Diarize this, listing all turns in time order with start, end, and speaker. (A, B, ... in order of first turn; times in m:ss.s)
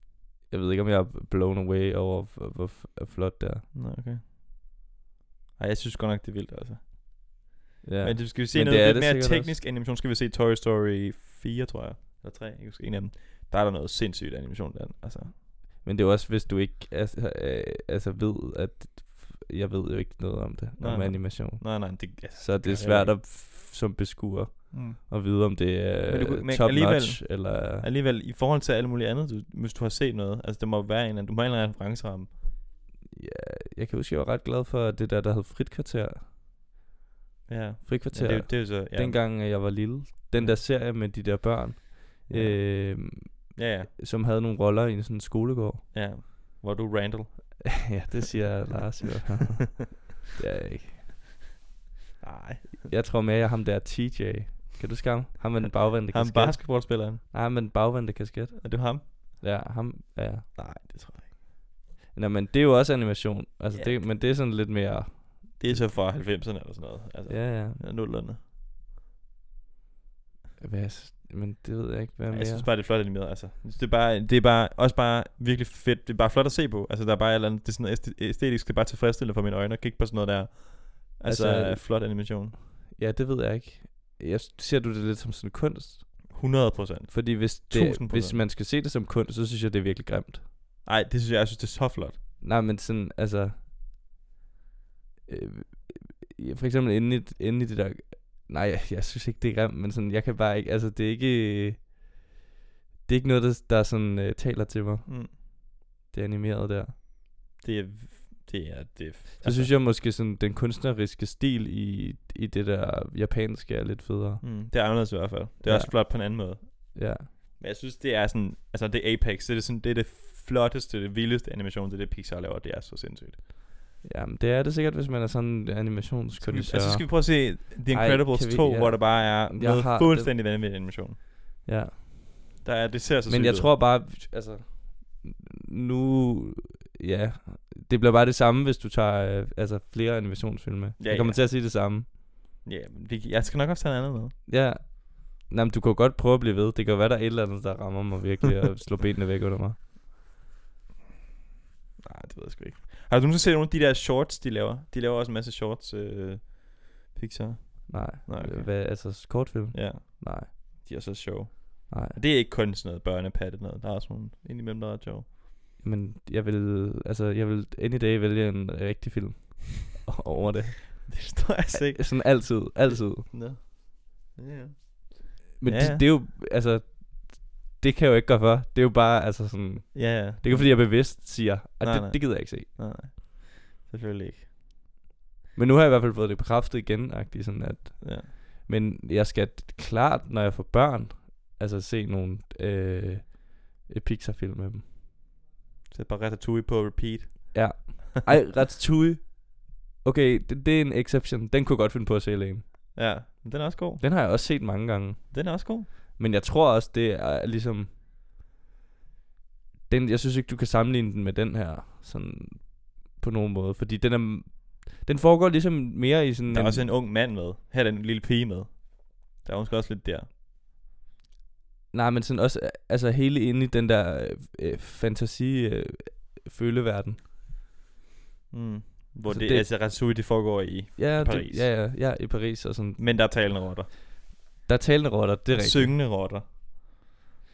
0:00.5-0:03.7 A
0:03.7-0:04.2 B
0:05.6-0:07.4 B
0:07.8-0:09.5 A
0:08.0-0:15.4 B
0:15.8-0:27.9 A
0:20.8-0:23.2 B
0:24.7-0:25.1 B
0:26.1-0:32.4 B
0:33.1-0:36.2 A
0:37.5-0:39.7 B
0:37.8-0:45.9 A
0:40.3-0:40.6 B
0:42.3-0:43.9 B
0:45.9-0:48.0 B
0:47.8-0:51.1 A
0:52.2-0:52.9 B
0:52.8-1:00.5 A
0:56.1-0:57.2 B
0:58.6-0:59.4 B
1:00.5-1:01.3 B
1:02.1-1:05.9 A
1:03.7-1:04.0 B
1:05.6-1:08.4 B
1:07.3-1:07.8 A
1:10.6-1:12.7 A
1:12.3-1:22.6 B
1:21.2-1:22.4 A
1:22.9-1:26.3 A
1:26.3-1:28.4 B
1:27.1-1:30.4 A
1:30.8-1:32.2 B
1:32.4-1:33.6 A
1:35.3-1:42.0 A
1:43.0-1:47.0 A
1:45.0-1:45.3 B
1:47.6-1:49.7 B
1:49.4-1:54.4 A
1:54.4-2:03.4 B
1:55.6-1:57.3 A
2:04.0-2:10.3 A
2:06.4-2:11.2 B
2:11.6-2:12.6 A
2:12.6-2:13.7 B
2:13.3-2:22.1 A
2:21.0-2:21.5 B
2:22.6-2:24.3 B
2:24.5-2:29.8 A
2:32.0-2:45.3 B
2:37.9-2:40.5 A
2:41.9-2:42.2 A
2:45.8-2:53.3 A
2:51.0-2:56.0 B
2:55.6-3:02.7 A
2:59.9-3:04.4 B
3:05.5-3:14.9 A
3:08.0-3:08.3 B
3:15.9-3:18.0 B
3:17.5-3:22.7 A
3:22.9-3:24.0 B
3:24.0-3:27.9 A
3:25.3-3:25.9 B
3:29.9-3:36.9 A
3:36.5-3:40.3 B
3:41.9-3:47.2 A
3:48.5-3:51.7 B
3:49.2-3:49.7 A
3:51.0-3:53.7 A
3:53.0-3:53.9 B
3:54.4-3:56.0 A
3:55.5-3:56.4 B